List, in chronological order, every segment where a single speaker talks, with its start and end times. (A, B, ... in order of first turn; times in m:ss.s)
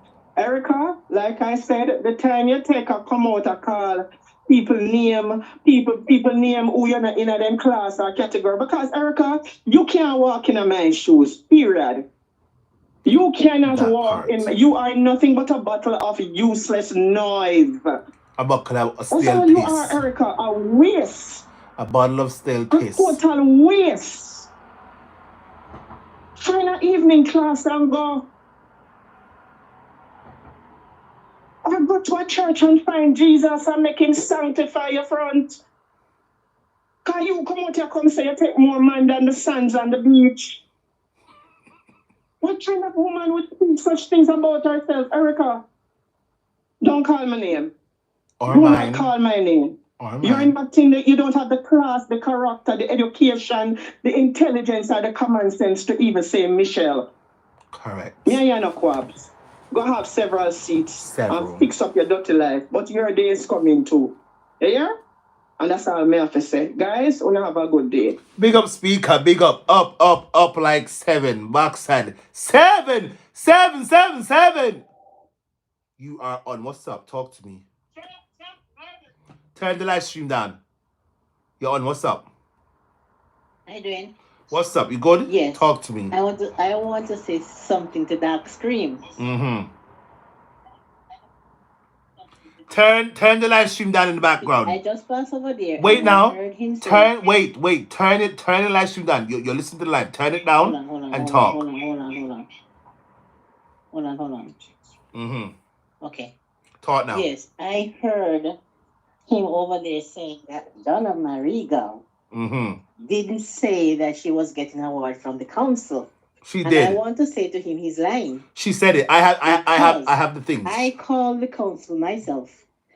0:00.4-0:12.0 A
0:13.0-0:17.9 A
0:13.6-0:14.5 B
0:18.4-0:20.0 B
0:19.1-0:21.4 A
0:21.8-0:23.2 B
0:22.7-0:24.5 A
0:26.4-0:28.2 A
0:31.6-0:35.6 A
0:37.0-0:40.6 A
0:42.4-0:45.6 A
0:46.8-0:47.7 A
0:48.4-0:49.1 B
0:48.5-0:57.0 A
0:50.0-0:50.5 B
0:57.7-0:58.4 B
0:58.2-1:04.9 A
1:01.1-1:01.7 B
1:05.6-1:08.2 A
1:08.4-1:14.8 B
1:16.0-1:17.6 B
1:19.5-1:20.6 B
1:21.6-1:22.3 B
1:23.6-1:24.1 C
1:24.5-1:26.1 B
1:25.2-1:29.2 C
1:29.2-1:29.7 B
1:32.7-1:34.8 B
1:34.4-1:37.1 C
1:35.8-1:41.6 B
1:40.6-1:42.5 C
1:43.9-1:44.6 C
1:45.1-1:45.5 B
1:46.0-1:46.3 C
1:46.8-1:47.3 B
1:47.1-1:48.6 C
1:49.3-1:52.0 C
1:52.3-1:52.8 B
1:53.0-1:56.1 C
1:56.4-1:57.0 B
1:56.6-1:58.4 C
1:58.5-2:00.9 B
1:59.4-2:02.6 C